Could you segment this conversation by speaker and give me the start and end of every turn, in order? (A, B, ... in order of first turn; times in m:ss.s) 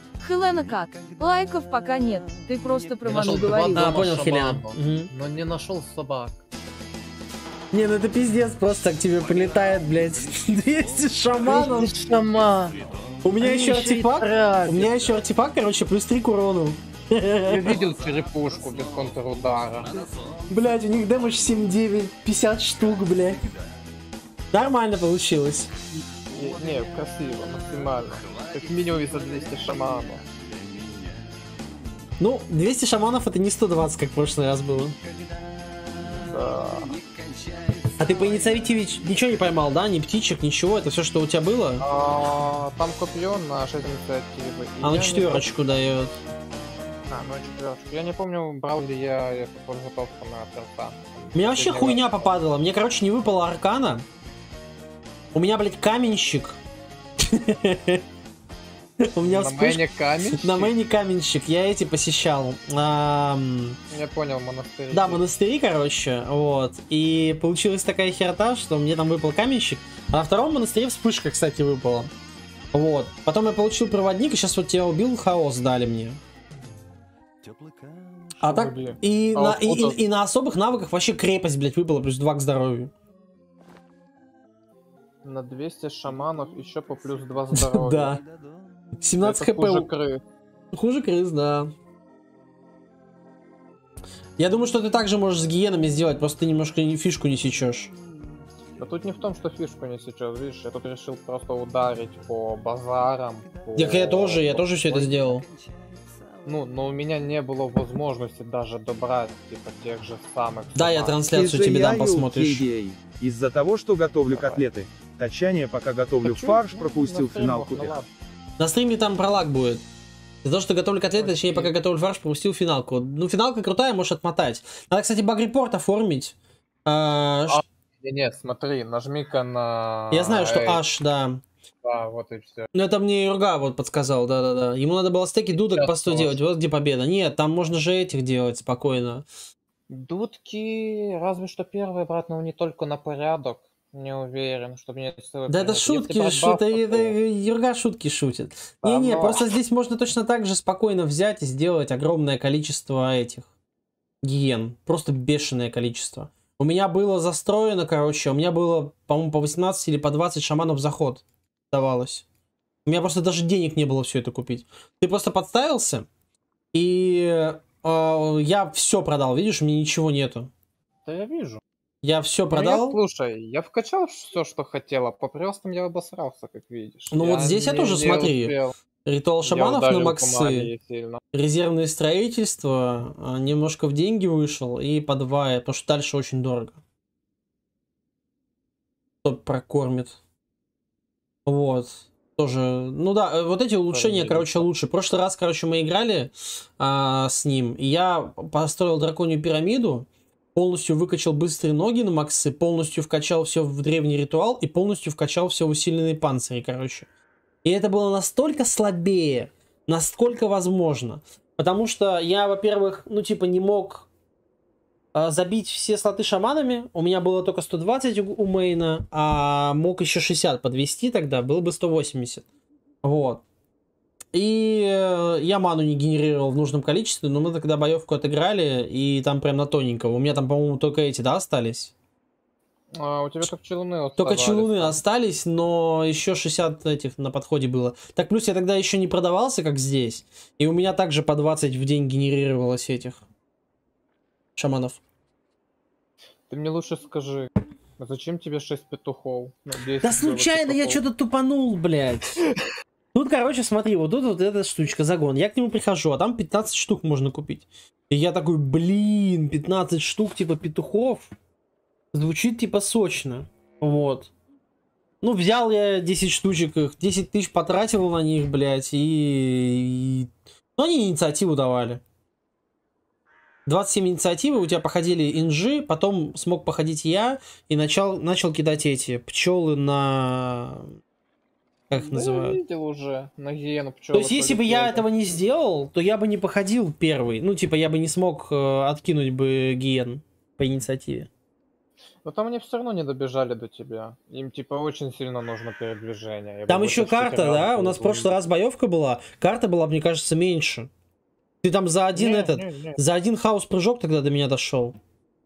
0:00.2-0:03.9 A
0:03.0-0:06.4 B
0:03.7-0:05.1 C
0:07.7-0:12.1 C
0:11.4-0:12.9 B
0:13.2-0:17.8 C
0:13.4-0:15.0 B
0:17.5-0:20.0 B
0:20.5-0:23.4 C
0:24.5-0:25.7 C
0:26.3-0:30.2 B
0:32.2-0:35.0 C
0:36.3-0:37.0 B
0:38.0-0:41.8 C
0:41.8-0:45.6 B
0:44.8-0:46.2 C
0:47.1-0:52.1 B
0:51.3-0:54.0 C
0:55.3-0:56.6 C
0:57.2-0:58.0 C
0:59.0-0:59.8 C
0:59.2-1:00.7 B
1:00.3-1:03.8 C
1:03.9-1:05.2 B
1:04.9-1:12.1 C
1:12.7-1:16.2 C
1:18.4-1:20.0 B
1:18.4-1:22.9 C
1:25.2-1:28.2 B
1:27.5-1:28.2 C
1:29.0-1:29.9 C
1:29.2-1:30.2 B
1:30.7-1:31.7 C
1:34.4-1:37.9 C
1:38.8-1:45.2 B
1:43.8-1:45.5 C
1:46.4-1:51.2 B
1:50.8-1:52.6 C
1:51.3-1:58.0 D
1:54.3-1:54.6 B
1:56.2-1:58.1 B
1:58.6-1:59.8 C
2:00.4-2:07.6 C
2:01.2-2:01.7 B
2:07.5-2:10.8 B
2:10.1-2:11.4 C
2:11.8-2:12.7 B
2:12.7-2:19.3 C
2:15.5-2:16.4 B
2:19.9-2:27.2 B
2:25.5-2:33.5 C
2:28.8-2:29.4 B
2:34.2-2:42.2 C
2:42.9-2:46.1 C
2:46.7-2:50.5 C
2:51.1-2:51.6 B
2:52.0-2:53.0 C
2:52.5-2:58.7 B
2:57.1-2:58.5 C
2:59.0-3:00.7 C
2:59.4-3:01.2 B
3:01.3-3:06.8 C
3:09.2-3:10.2 C
3:11.5-3:27.1 C
3:13.9-3:14.7 B
3:27.6-3:34.1 C
3:35.1-3:42.4 C
3:43.0-3:43.4 C
3:44.3-3:51.9 C
3:53.0-3:55.0 B
3:54.2-4:03.2 C
4:04.6-4:05.0 C
4:06.5-4:11.0 B
4:10.0-4:12.4 C
4:13.1-4:21.3 C
4:22.1-4:24.3 C
4:25.2-4:32.0 C
4:33.7-4:41.0 C
4:41.9-4:42.6 C
4:41.9-4:45.1 B
4:44.1-4:51.3 C
4:52.2-4:58.3 B
4:56.7-5:00.9 C
5:01.6-5:05.0 C
5:02.2-5:03.0 B